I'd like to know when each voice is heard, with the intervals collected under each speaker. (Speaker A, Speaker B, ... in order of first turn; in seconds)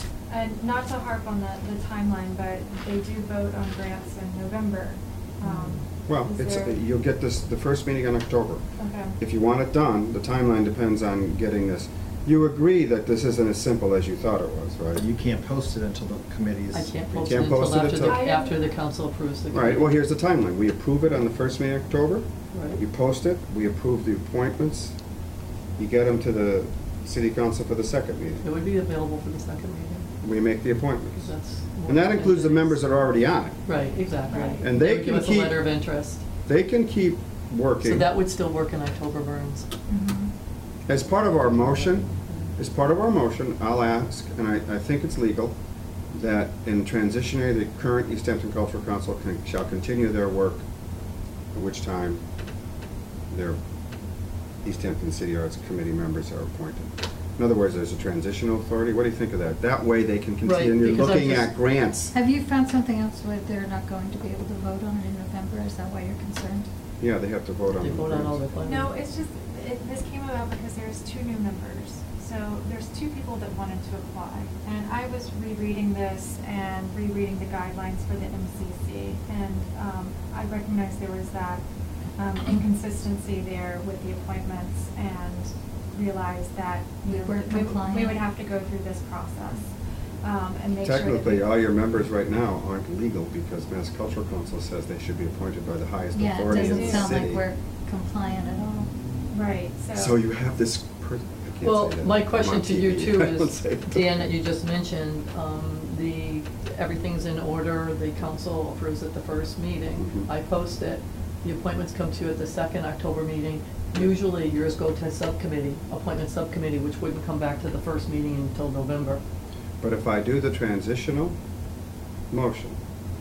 Speaker A: 0.3-6.8, 8.8-9.2, 18.0-18.6, 34.3-34.7, 68.6-81.6, 82.2-91.5, 96.5-97.1, 99.3-100.2
Speaker B: 5.4-5.8, 16.7-19.9, 22.5-22.8, 28.4-30.1, 31.1-33.1, 33.6-36.2, 37.8-39.7, 41.5-42.5, 60.4-61.5, 67.8-68.9, 101.6-119.2
Speaker C: 6.1-8.6, 9.2-15.0, 17.1-18.2, 19.5-25.0, 25.8-28.4, 30.2-33.6, 34.6-35.6, 36.4-38.1, 40.9-45.5, 46.1-50.6, 51.5-52.2, 53.3-53.6, 54.6-62.1, 67.0-68.4, 90.8-97.4, 99.9-104.1, 110.0-110.3, 119.8-121.3, 122.3-122.8
Speaker D: 14.9-17.3
Speaker E: 39.9-40.3, 62.1-66.7, 87.0-88.2, 96.1-98.9